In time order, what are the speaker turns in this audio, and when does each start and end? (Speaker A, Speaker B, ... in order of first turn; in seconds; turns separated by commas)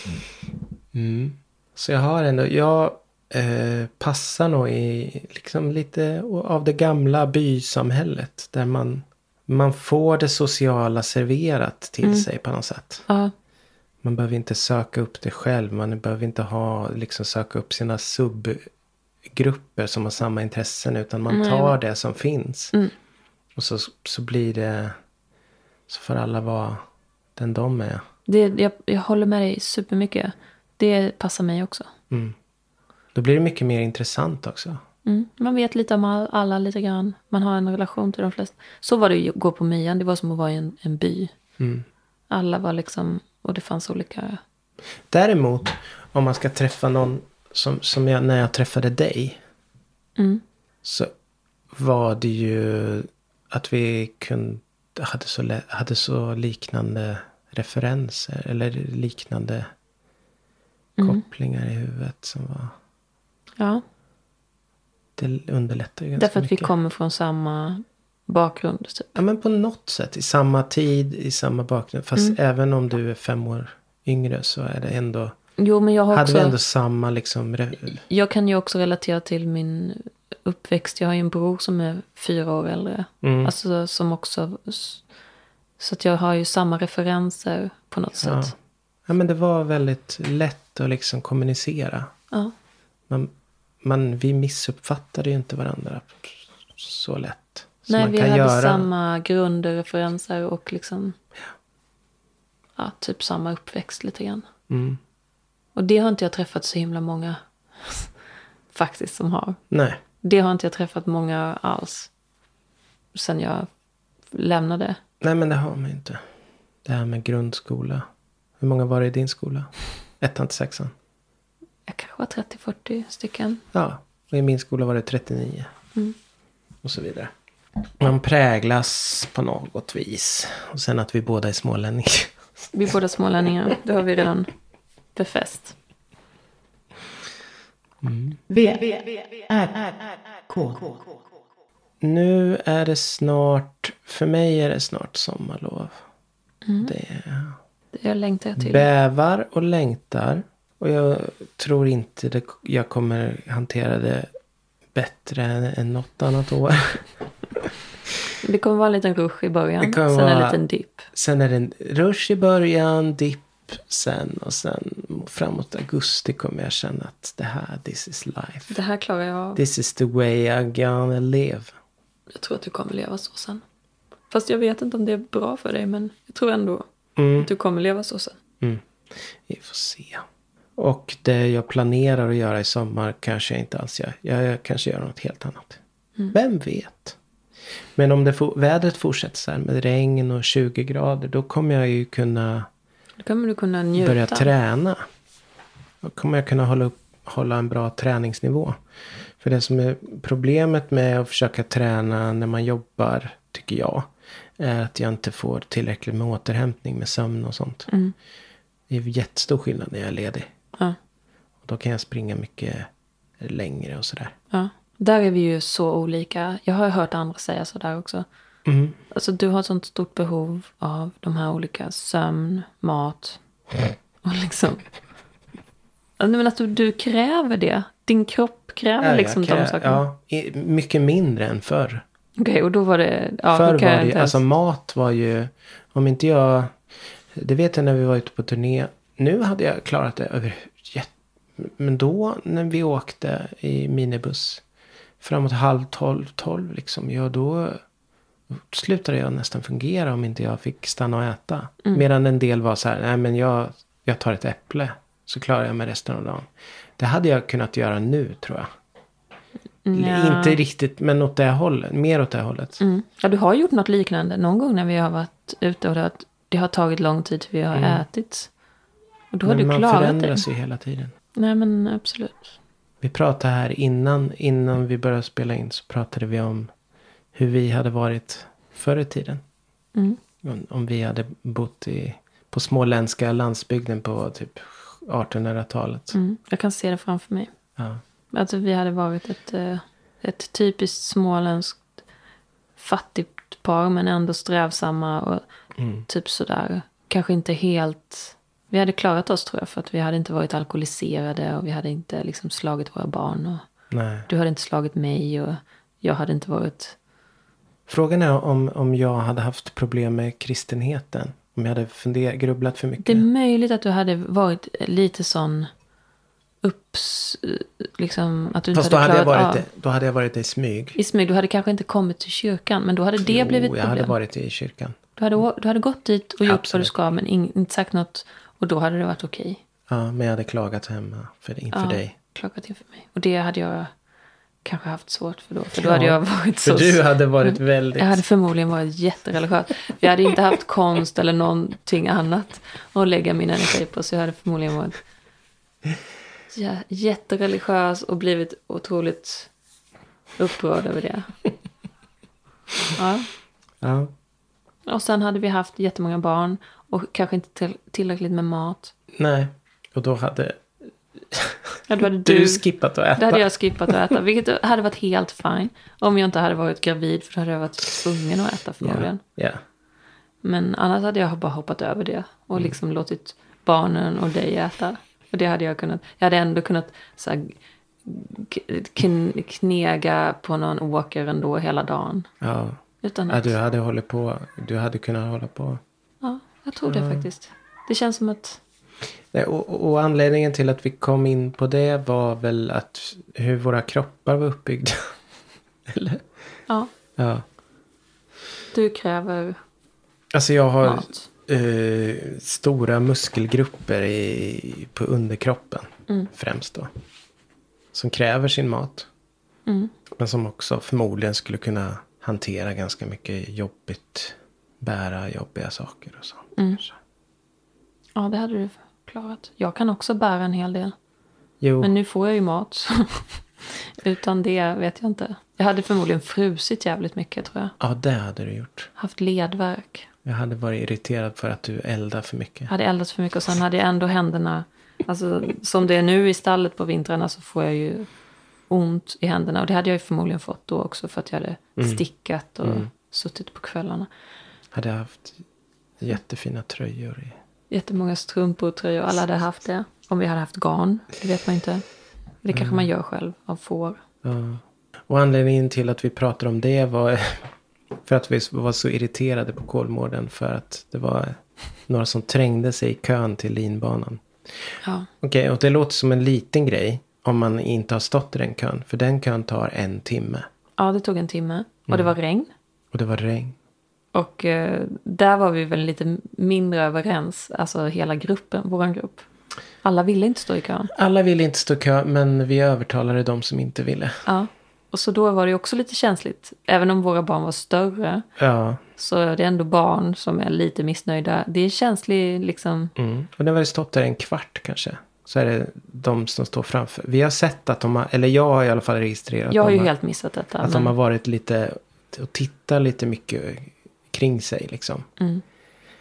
Speaker A: 0.9-13.1, Speaker B: 13.1-13.3, Speaker A: 14.0-18.6, Speaker A: 19.2-22.7, Speaker B: 21.3-21.8, Speaker A: 23.5-24.9, Speaker A: 25.9-26.8, Speaker A: 27.4-28.0, Speaker B: 28.3-31.9, Speaker A: 32.1-32.4, Speaker A: 33.1-34.8, Speaker B: 35.0-41.3, Speaker A: 41.6-41.9, Speaker B: 42.3-44.4, Speaker A: 45.1-49.4, Speaker B: 50.2-50.4, Speaker A: 50.8-51.1, Speaker A: 51.7-59.7, Speaker B: 61.0-61.2, Speaker A: 61.0-62.8, Speaker B: 63.6-63.8, Speaker A: 65.2-66.7, Speaker B: 66.2-69.1, Speaker A: 69.1-75.3, Speaker B: 75.6-76.5, Speaker A: 76.1-78.0, Speaker B: 78.1-85.0, Speaker A: 83.2-83.5, Speaker B: 85.8-88.5, Speaker A: 88.2-88.5, Speaker A: 89.0-92.1, Speaker A: 93.1-98.9, Speaker B: 97.9-101.2, Speaker B: 102.8-104.4, Speaker A: 104.7-105.0, Speaker B: 105.7-108.1, Speaker B: 108.7-109.6, Speaker A: 109.7-110.0, Speaker B: 110.2-112.1, Speaker B: 113.1-113.7, Speaker B: 114.3-115.0, Speaker A: 115.2-116.2, Speaker A: 116.8-118.0, Speaker A: 118.6-120.9, Speaker B: 121.9-123.6, Speaker A: 123.7-125.7, Speaker A: 126.8-127.3, Speaker A: 128.0-132.7, Speaker B: 132.7-134.5, Speaker B: 135.1-135.8, Speaker A: 138.0-138.4, Speaker C: 138.5-141.2, Speaker A: 142.0-146.0, Speaker B: 146.7-146.9, Speaker A: 146.8-147.6, Speaker B: 147.9-148.9, Speaker A: 148.6-154.3, Speaker A: 154.9-157.0, Speaker B: 158.4-161.1, Speaker A: 159.8-160.6, Speaker A: 161.1-168.8, Speaker B: 168.7-169.6, Speaker A: 169.6-171.7, Speaker B: 172.3-173.6, Speaker B: 174.3-178.4, Speaker A: 177.2-177.5, Speaker A: 178.6-180.2, Speaker A: 180.8-185.8, Speaker A: 186.3-187.2, Speaker A: 187.9-192.7, Speaker B: 193.2-194.5, Speaker A: 194.0-195.0, Speaker A: 196.0-198.8, Speaker A: 199.4-207.9, Speaker B: 207.9-208.1, Speaker A: 208.9-210.5, Speaker A: 211.6-212.9, Speaker A: 213.4-214.3, Speaker B: 214.5-218.2, Speaker A: 218.7-219.0, Speaker B: 219.1-223.4, Speaker B: 224.2-224.9, Speaker B: 226.2-230.0, Speaker A: 229.0-232.0, Speaker B: 232.4-234.4, Speaker A: 233.5-236.8, Speaker A: 237.3-244.6, Speaker A: 245.2-247.8, Speaker A: 248.5-258.7, Speaker B: 259.8-260.6, Speaker A: 259.9-262.8, Speaker B: 262.8-268.5, Speaker A: 267.7-268.0, Speaker B: 269.3-270.4, Speaker A: 269.4-271.1, Speaker B: 271.3-272.5, Speaker A: 273.0-276.7, Speaker A: 277.3-279.4, Speaker A: 280.4-286.2, Speaker B: 286.1-287.5, Speaker B: 288.3-291.9, Speaker B: 292.8-295.4, Speaker A: 295.8-296.1, Speaker B: 296.1-303.6, Speaker A: 303.9-304.3, Speaker B: 304.3-306.9, Speaker A: 307.9-313.3, Speaker B: 313.0-315.7, Speaker B: 316.6-319.6, Speaker A: 318.7-321.0, Speaker B: 320.9-324.1, Speaker A: 323.2-325.0, Speaker B: 325.2-329.6, Speaker A: 326.4-326.9, Speaker A: 329.9-332.1, Speaker B: 331.7-333.9, Speaker B: 334.6-345.0, Speaker A: 335.8-338.2, Speaker B: 346.5-349.5, Speaker B: 350.4-351.3, Speaker B: 352.9-353.3, Speaker A: 353.8-354.1, Speaker B: 354.9-358.9, Speaker A: 359.1-364.1, Speaker B: 361.9-362.6, Speaker B: 363.1-369.2, Speaker A: 368.8-369.6, Speaker B: 370.4-382.3, Speaker A: 382.4-385.8, Speaker B: 383.0-383.5, Speaker B: 386.2-388.6, Speaker A: 386.9-387.2, Speaker A: 389.3-395.1, Speaker A: 395.9-396.2, Speaker A: 397.2-397.4, Speaker B: 398.7-399.6, Speaker A: 400.3-406.9, Speaker B: 400.8-401.2, Speaker A: 407.9-409.1, Speaker B: 409.7-409.9, Speaker A: 410.1-416.9, Speaker B: 416.6-416.8, Speaker B: 418.1-420.9, Speaker A: 421.6-421.9, Speaker B: 421.8-427.7, Speaker A: 427.8-428.9, Speaker B: 429.0-430.1, Speaker A: 430.2-432.7, Speaker B: 432.7-438.1, Speaker B: 438.7-444.1, Speaker A: 442.6-442.9, Speaker A: 444.7-445.4, Speaker A: 446.0-447.4, Speaker B: 447.7-451.8, Speaker B: 452.4-454.0, Speaker A: 452.5-452.9, Speaker A: 454.2-457.5, Speaker A: 458.0-461.4, Speaker A: 461.9-464.7, Speaker B: 464.8-465.1, Speaker A: 465.2-470.5, Speaker B: 470.8-472.5, Speaker A: 471.9-472.1, Speaker A: 472.9-473.6, Speaker B: 474.1-479.3, Speaker B: 479.8-480.9, Speaker A: 480.9-484.2, Speaker B: 484.2-488.2, Speaker A: 488.4-488.8, Speaker B: 488.9-492.9, Speaker A: 493.0-499.9, Speaker B: 499.5-500.9, Speaker A: 500.6-505.1